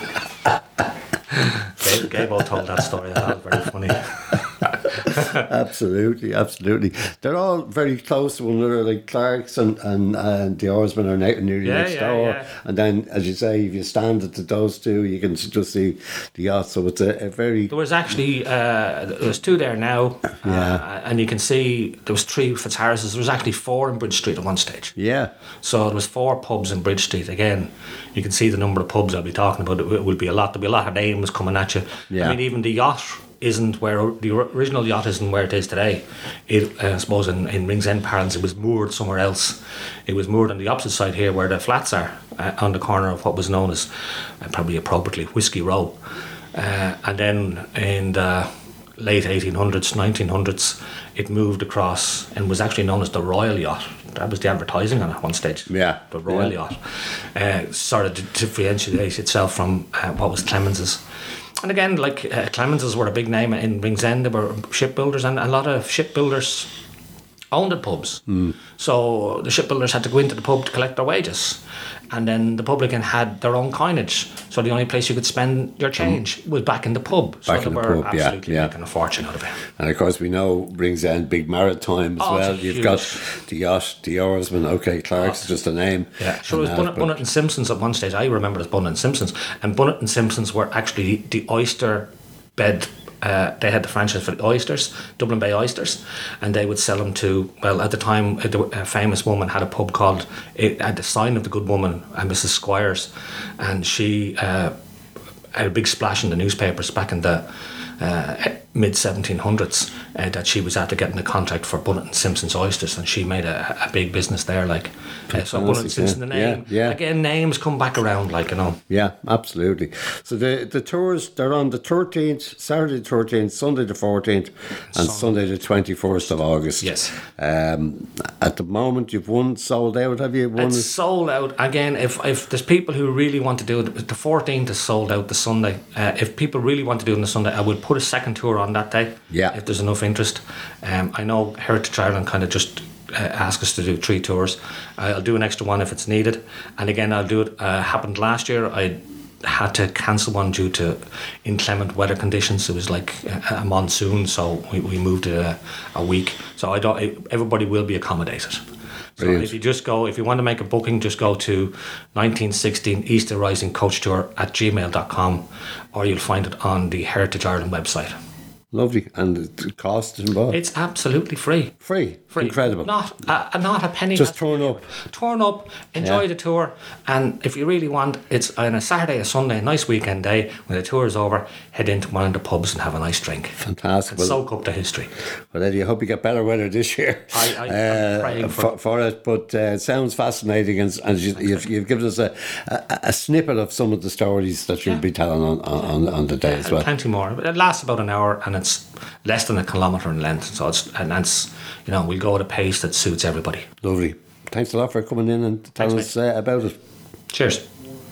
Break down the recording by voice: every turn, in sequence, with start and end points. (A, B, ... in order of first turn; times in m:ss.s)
0:01.3-0:05.4 A
0:05.4-0:17.7 B
0:11.6-0:12.5 A
0:17.7-0:24.9 A
0:20.4-0:20.8 B
0:25.0-0:25.3 B
0:25.6-0:46.0 A
0:32.1-0:32.4 B
0:46.5-1:01.0 A
0:55.7-0:56.5 B
1:01.6-1:06.7 A
1:07.5-1:08.2 A
1:08.3-1:08.5 B
1:08.8-1:19.6 A
1:17.4-1:18.7 B
1:19.8-1:27.2 B
1:22.2-1:23.2 A
1:25.2-1:25.5 A
1:26.2-1:44.7 A
1:45.5-1:58.8 A
1:55.3-1:57.0 B
1:58.9-2:10.9 B
2:04.9-2:05.4 A
2:06.8-2:07.2 A
2:10.6-2:38.6 A
2:19.3-2:19.6 B
2:39.2-2:48.1 A
2:39.2-2:39.5 B
2:48.7-2:50.6 B
2:50.5-2:51.7 A
2:51.8-2:52.9 B
2:52.3-3:05.1 A
2:54.1-2:54.8 B
2:56.0-2:56.2 B
3:03.6-3:04.4 B
3:05.5-3:16.9 B
3:07.3-3:08.7 A
3:11.4-3:11.6 A
3:16.4-3:23.7 A
3:23.8-3:26.8 B
3:25.8-3:26.1 A
3:27.3-3:27.6 A